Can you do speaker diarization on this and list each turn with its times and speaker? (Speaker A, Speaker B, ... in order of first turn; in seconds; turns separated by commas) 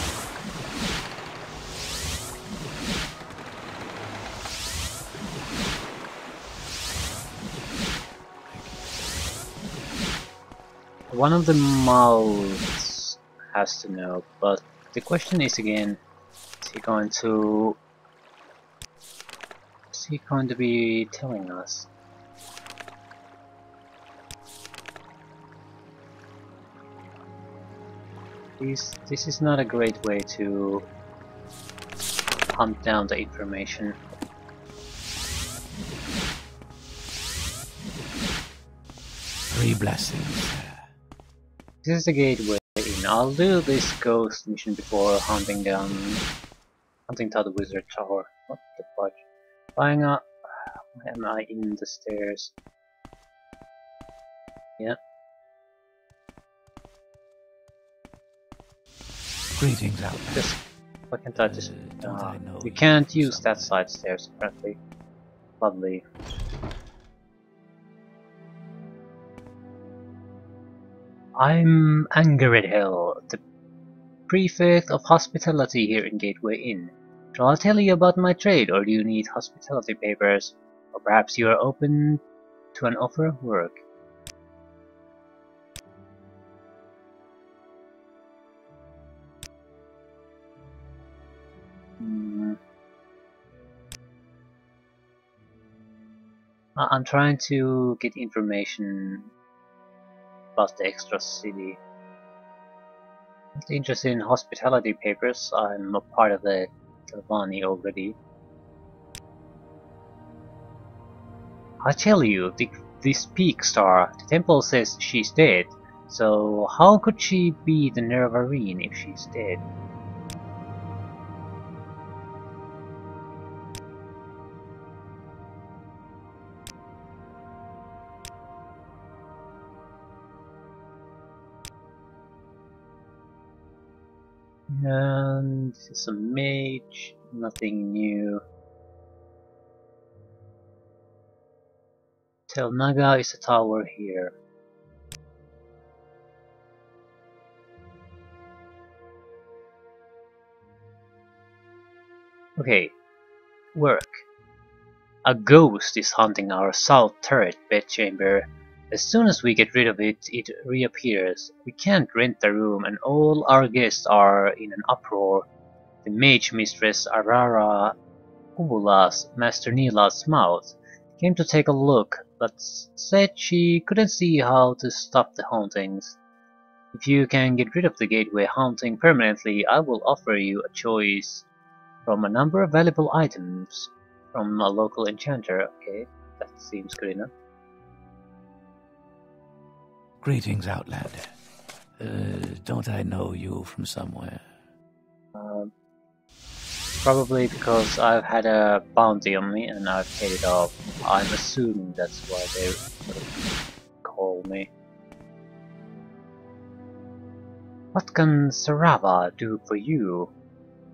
Speaker A: 11.1-16.0, Speaker A: 16.6-17.8, Speaker A: 19.9-21.9, Speaker A: 28.6-30.9, Speaker A: 32.5-34.0, Speaker B: 39.5-40.9, Speaker A: 41.8-46.2, Speaker A: 47.1-49.2, Speaker A: 49.8-52.5, Speaker B: 59.6-60.6, Speaker A: 61.1-64.8, Speaker B: 61.4-63.8, Speaker A: 65.6-66.0, Speaker A: 71.4-73.4, Speaker A: 74.3-82.2, Speaker A: 82.7-83.8, Speaker A: 92.0-92.6, Speaker A: 96.8-99.3, Speaker A: 100.6-101.8, Speaker A: 103.6-108.2, Speaker A: 111.8-119.6, Speaker A: 134.7-138.4, Speaker A: 142.5-144.3, Speaker A: 152.6-152.9, Speaker A: 153.8-154.2, Speaker A: 155.2-165.5, Speaker A: 166.0-167.9, Speaker A: 168.6-176.2, Speaker A: 176.9-181.5, Speaker A: 182.1-187.3, Speaker B: 190.2-191.3, Speaker B: 192.0-194.5, Speaker A: 195.3-195.7, Speaker A: 196.9-203.2, Speaker A: 204.0-204.7, Speaker A: 207.9-210.3